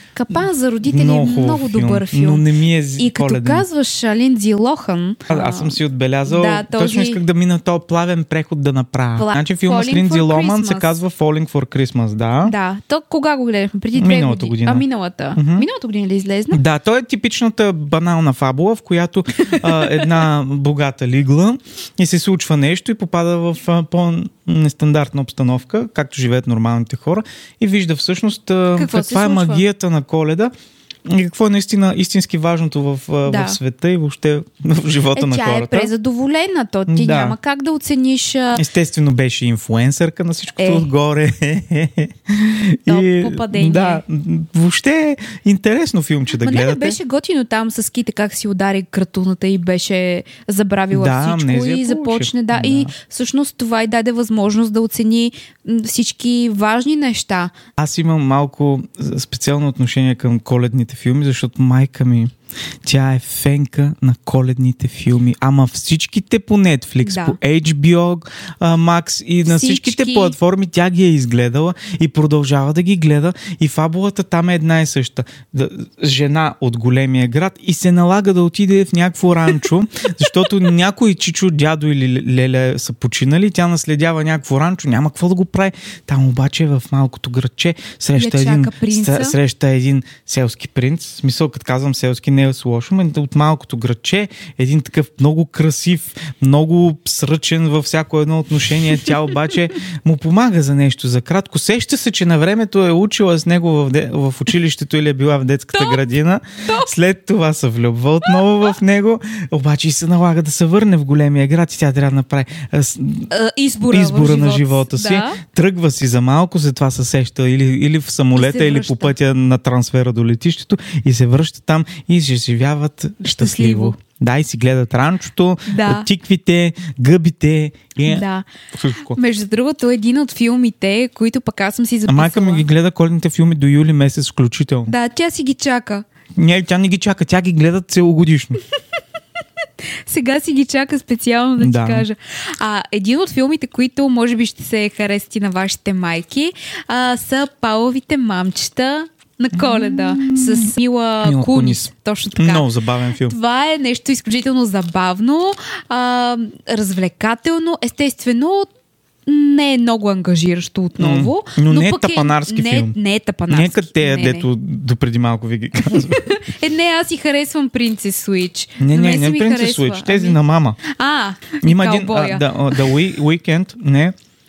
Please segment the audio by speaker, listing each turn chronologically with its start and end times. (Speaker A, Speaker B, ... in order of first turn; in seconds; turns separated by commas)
Speaker A: 0.2-2.5, Speaker B: 0.9-3.6, Speaker A: 3.0-7.2, Speaker B: 5.3-12.5, Speaker A: 9.2-10.9, Speaker A: 12.4-16.6, Speaker B: 14.0-15.7, Speaker B: 16.5-30.5, Speaker A: 19.5-20.2, Speaker A: 28.8-29.6, Speaker B: 31.1-35.9, Speaker A: 33.3-33.6, Speaker A: 35.1-38.6, Speaker B: 36.9-37.4, Speaker B: 38.5-47.0, Speaker A: 40.6-40.9, Speaker A: 42.9-44.0, Speaker A: 46.3-57.5, Speaker B: 50.9-52.9, Speaker B: 57.8-62.3, Speaker B: 62.9-113.3, Speaker A: 67.0-67.4, Speaker A: 69.5-70.3, Speaker A: 88.2-89.4, Speaker A: 105.8-106.1, Speaker A: 113.3-115.4, Speaker B: 113.9-129.2, Speaker A: 118.3-119.1, Speaker A: 123.2-124.0, Speaker A: 125.7-126.1, Speaker A: 128.0-128.5, Speaker A: 129.0-132.6, Speaker B: 132.1-134.9, Speaker A: 134.9-136.1, Speaker B: 136.4-138.6, Speaker A: 140.1-152.7, Speaker B: 141.6-142.1, Speaker B: 149.5-153.4, Speaker A: 153.2-158.7, Speaker A: 159.3-164.5, Speaker B: 161.0-162.9, Speaker B: 163.5-166.4, Speaker A: 165.9-173.0, Speaker B: 168.8-170.8, Speaker B: 171.6-174.2